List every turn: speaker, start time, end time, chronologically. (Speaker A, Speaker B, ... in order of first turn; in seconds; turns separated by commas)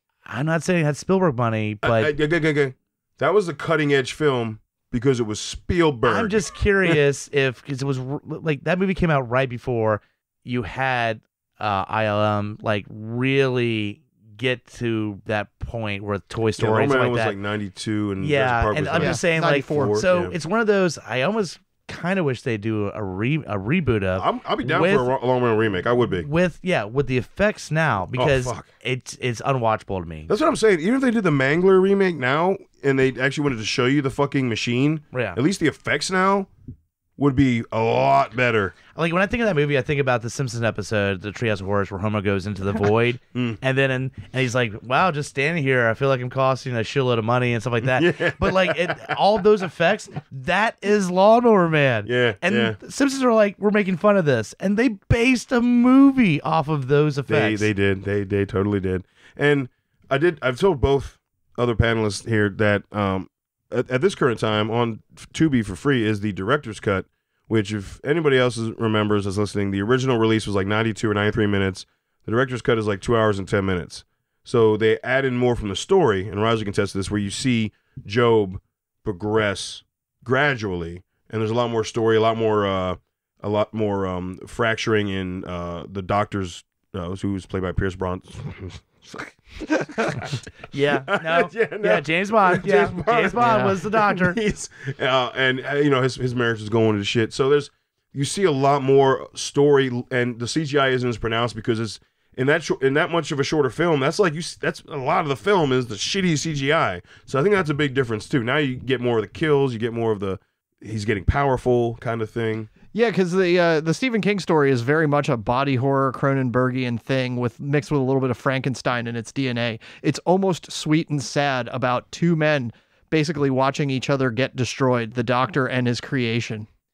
Speaker A: 0.3-2.1, Speaker B: 1.8-7.0, Speaker A: 6.0-17.4, Speaker B: 16.6-20.4, Speaker A: 18.2-25.1, Speaker C: 19.0-20.0, Speaker B: 24.2-26.3, Speaker A: 26.2-30.3, Speaker B: 28.2-28.7, Speaker B: 30.3-36.5, Speaker A: 35.1-35.4, Speaker B: 37.2-38.8, Speaker A: 39.0-57.7, Speaker B: 43.3-43.6, Speaker B: 47.8-49.2, Speaker B: 52.0-52.8, Speaker B: 57.3-90.4, Speaker A: 90.7-94.4, Speaker B: 91.1-112.7, Speaker C: 93.4-93.7, Speaker C: 112.9-126.7